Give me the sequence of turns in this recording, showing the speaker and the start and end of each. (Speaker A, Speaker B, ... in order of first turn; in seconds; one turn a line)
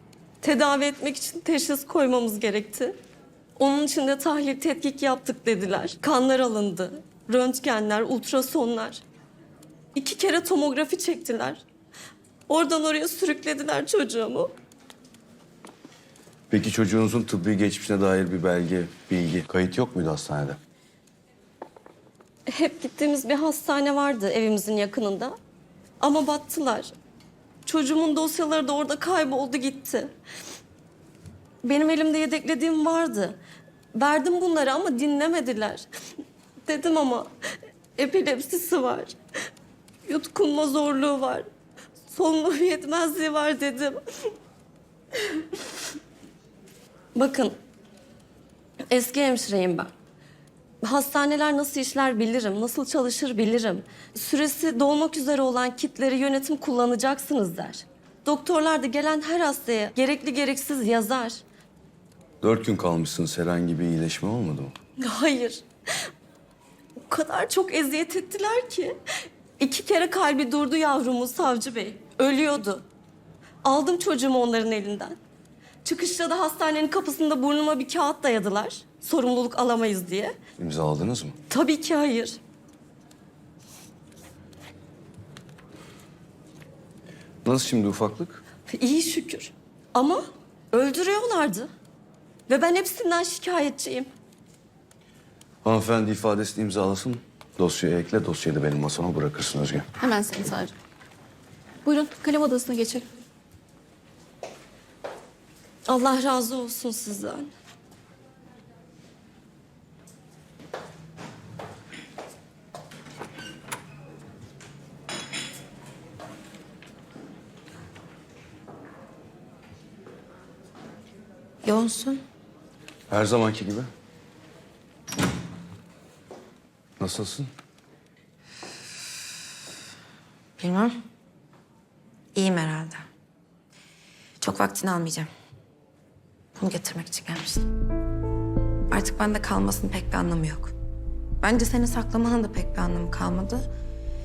Speaker A: 0.4-3.0
Speaker A: 3.6-9.0
Speaker A: 9.9-11.6
Speaker A: 12.5-14.5
Speaker B: 16.5-20.6
Speaker A: 22.5-25.4
Speaker A: 26.0-26.9
Speaker A: 27.7-30.1
Speaker A: 31.6-33.4
Speaker A: 34.0-35.9
Speaker A: 36.7-37.3
Speaker A: 38.0-39.2
Speaker A: 40.1-41.5
Speaker A: 42.1-44.0
Speaker A: 47.1-47.5
Speaker A: 48.9-49.9
Speaker A: 50.8-61.4
Speaker B: 62.4-64.7
Speaker A: 65.0-65.6
Speaker A: 67.1-69.0
Speaker A: 69.6-72.8
Speaker A: 73.6-75.2
Speaker A: 75.8-80.4
Speaker B: 80.6-81.4
Speaker A: 81.5-82.4
Speaker B: 87.5-88.4
Speaker A: 88.7-91.7
Speaker A: 92.5-94.1
Speaker B: 95.6-99.9
Speaker C: 100.0-100.7
Speaker C: 101.8-103.1
Speaker A: 105.9-107.5
Speaker D: 121.6-122.2
Speaker B: 123.1-123.9
Speaker B: 127.0-127.5
Speaker D: 130.6-130.9
Speaker D: 132.3-133.0
Speaker D: 134.4-135.3
Speaker D: 136.6-137.6
Speaker D: 138.9-140.7
Speaker D: 141.4-143.7